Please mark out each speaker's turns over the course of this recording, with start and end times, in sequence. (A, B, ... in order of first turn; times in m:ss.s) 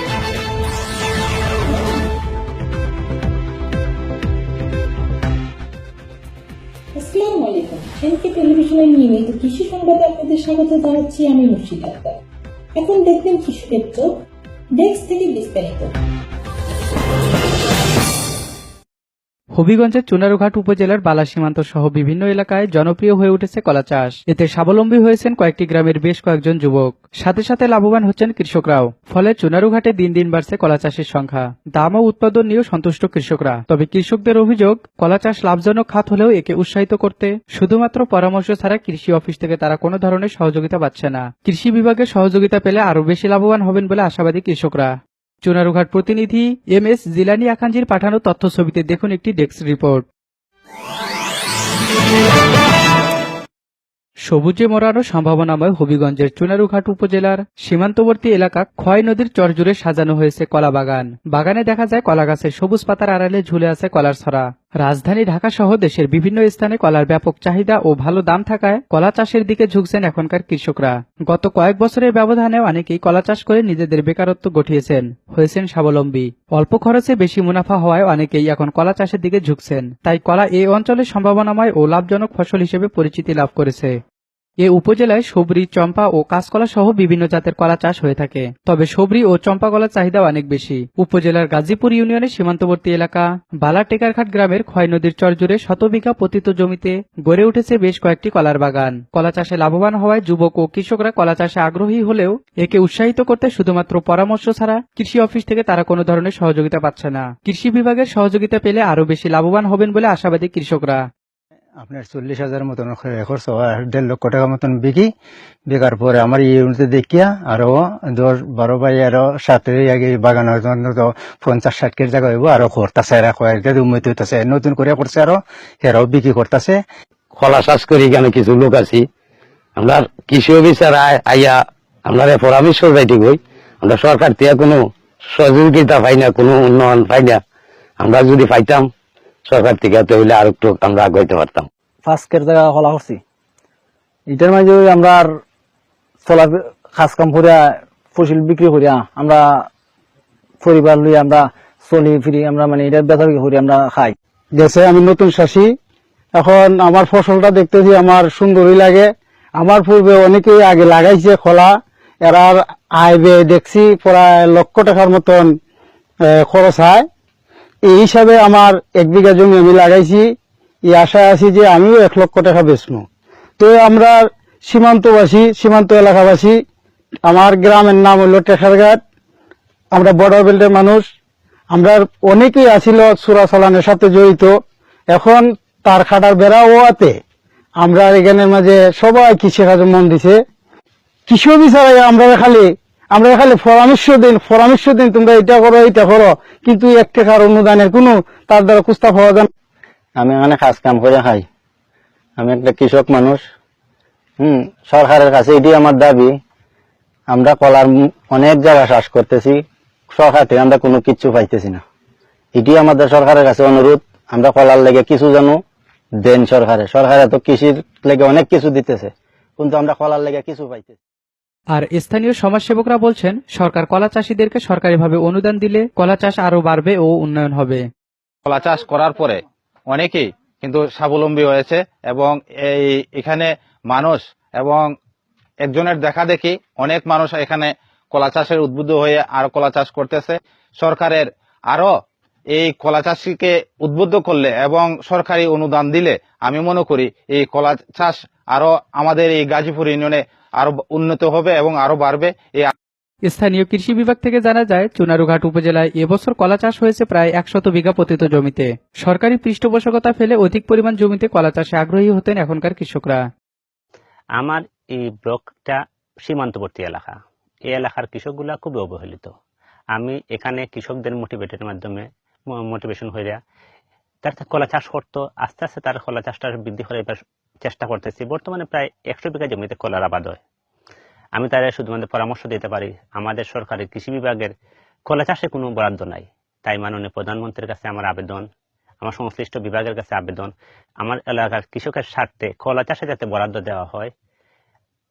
0:06.9-0:12.2 A
0:12.8-0:14.1 A
0:14.7-0:16.0 A
0:19.6-0:50.1 B
0:54.3-1:24.0 B
1:24.6-1:51.0 B
1:51.8-1:55.1 C
1:55.7-2:06.8 C
2:07.3-2:09.1 D
2:09.8-2:17.4 D
2:18.0-2:18.9 D
2:19.5-2:21.7 D
2:22.0-2:23.2 E
2:24.3-2:25.4 E
2:26.2-2:29.7 E
2:30.6-2:34.2 E
2:34.6-2:35.7 C
2:36.4-2:41.7 C
2:42.2-2:45.5 C
2:46.3-2:47.1 C
2:47.9-2:50.3 C
2:50.9-2:53.0 C
2:53.6-2:56.6 C
2:57.3-2:59.0 C
2:59.9-3:01.0 C
3:01.7-3:04.5 C
3:05.1-3:07.2 C
3:07.8-3:10.4 C
3:11.3-3:19.5 C
3:20.2-3:21.4 F
3:22.4-3:23.4 F
3:24.4-3:26.3 F
3:27.3-3:31.8 F
3:32.6-3:35.6 F
3:36.2-3:41.0 F
3:41.7-3:47.8 B
3:48.4-3:54.9 G
3:55.6-4:01.9 G
4:02.5-4:12.7 G
4:13.3-4:23.2 B
4:24.4-4:27.2 H
4:27.7-4:29.3 H
4:30.0-4:32.0 H
4:32.6-4:33.4 H
4:34.2-4:40.4 H
4:41.4-4:44.5 H
4:45.1-4:48.5 H
4:49.0-4:50.5 H
4:51.0-4:54.1 H